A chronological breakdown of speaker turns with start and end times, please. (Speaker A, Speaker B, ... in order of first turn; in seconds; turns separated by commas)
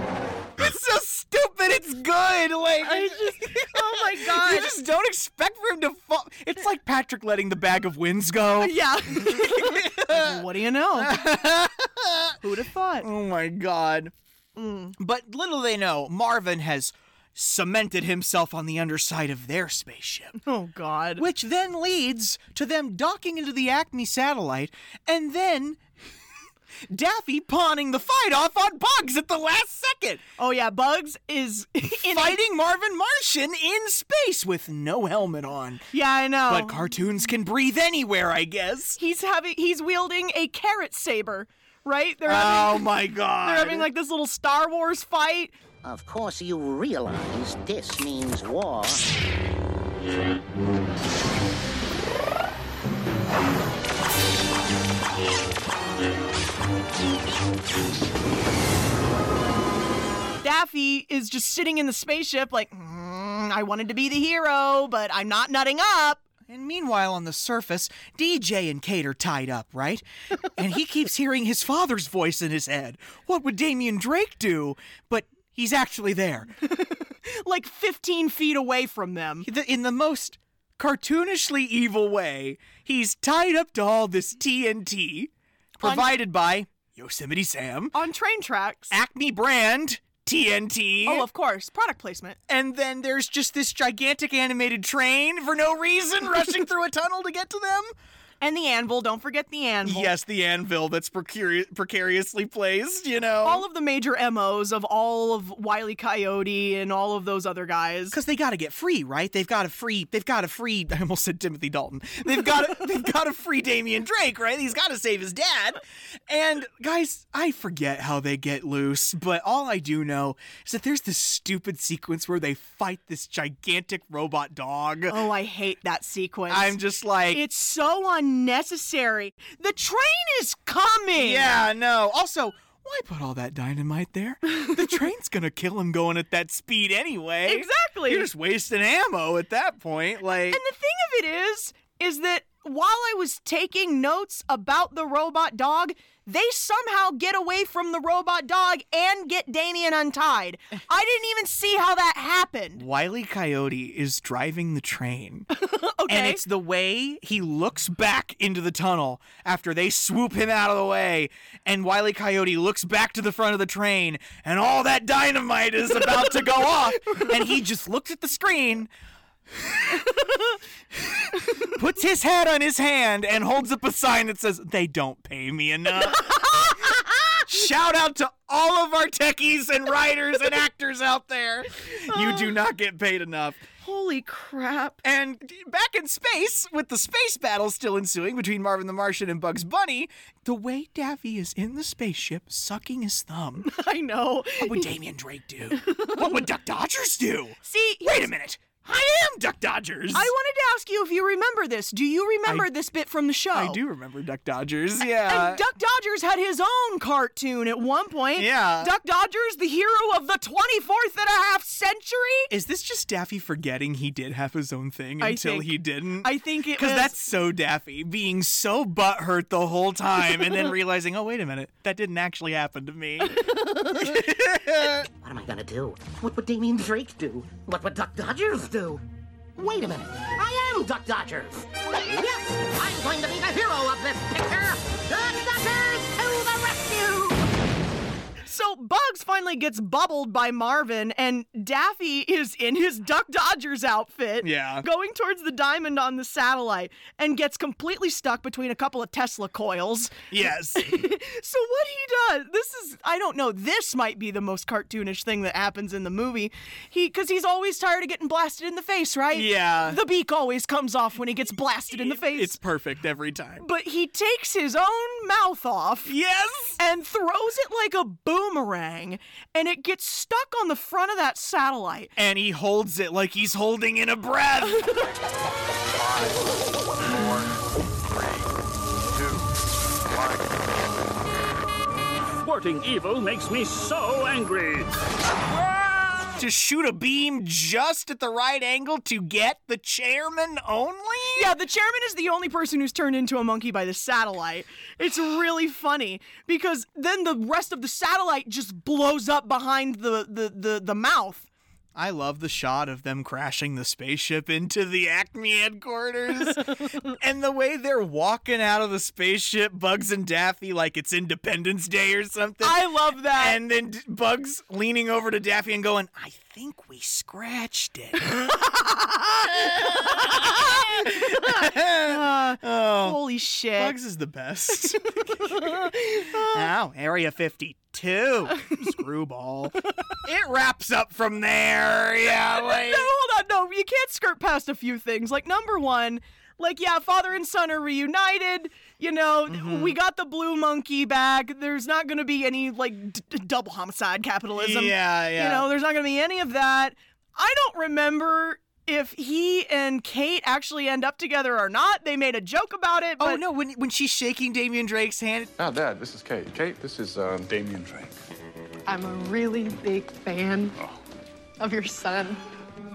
Speaker A: 0.6-10.4, Speaker B: 2.8-4.8, Speaker B: 8.6-11.3, Speaker A: 10.9-12.3, Speaker B: 12.4-13.1, Speaker A: 13.0-14.1, Speaker B: 14.6-14.9, Speaker A: 15.0-20.4, Speaker B: 20.4-21.3, Speaker A: 21.2-25.8, Speaker A: 26.9-30.2, Speaker B: 30.4-32.4, Speaker A: 32.1-35.9, Speaker B: 35.9-36.9, Speaker A: 36.5-39.0, Speaker B: 39.0-45.5, Speaker A: 42.3-43.9, Speaker C: 45.8-49.0, Speaker B: 60.4-66.2, Speaker A: 66.5-70.0, Speaker A: 70.6-76.5, Speaker B: 76.6-79.5, Speaker A: 79.4-88.0, Speaker B: 85.8-86.1, Speaker B: 87.9-88.9, Speaker A: 88.9-91.2, Speaker B: 91.0-92.4, Speaker A: 92.5-97.9, Speaker B: 98.4-100.1, Speaker A: 99.8-103.6, Speaker B: 103.4-108.2, Speaker A: 108.1-125.2, Speaker B: 125.1-126.8, Speaker A: 126.5-127.4, Speaker B: 127.3-131.6, Speaker A: 131.2-140.6, Speaker B: 137.5-138.3, Speaker B: 140.5-152.8, Speaker A: 152.8-155.5, Speaker B: 155.6-156.4, Speaker A: 156.1-168.9, Speaker A: 169.7-170.0, Speaker A: 171.6-176.9, Speaker A: 177.5-183.6, Speaker B: 182.1-182.6, Speaker B: 183.8-185.0, Speaker A: 185.0-193.7, Speaker B: 193.7-194.9, Speaker A: 194.6-200.3, Speaker B: 195.8-196.2, Speaker B: 197.7-198.3, Speaker B: 200.1-203.8, Speaker A: 203.5-205.6, Speaker B: 205.2-212.5, Speaker A: 208.4-208.9, Speaker A: 212.5-223.5, Speaker B: 215.2-217.2, Speaker A: 224.0-225.1, Speaker C: 225.2-229.0, Speaker C: 229.6-237.4, Speaker B: 238.5-262.6, Speaker A: 244.4-244.8, Speaker A: 250.3-250.9, Speaker A: 259.3-260.0, Speaker A: 262.0-263.6, Speaker B: 263.6-266.1, Speaker A: 266.1-266.8, Speaker B: 266.8-272.1, Speaker A: 272.2-275.0, Speaker D: 276.0-276.4, Speaker D: 277.0-277.4, Speaker E: 282.4-284.9, Speaker A: 286.4-291.5, Speaker B: 291.4-301.5, Speaker A: 302.0-312.8, Speaker B: 312.6-313.6, Speaker A: 313.4-318.3, Speaker B: 318.6-323.9, Speaker A: 319.5-323.2, Speaker A: 323.8-325.9, Speaker B: 325.1-326.7, Speaker A: 326.5-333.1, Speaker B: 332.5-353.4, Speaker A: 339.5-339.9, Speaker A: 344.6-345.7, Speaker A: 353.2-355.5, Speaker D: 355.6-358.1, Speaker F: 358.9-360.8, Speaker F: 361.6-362.4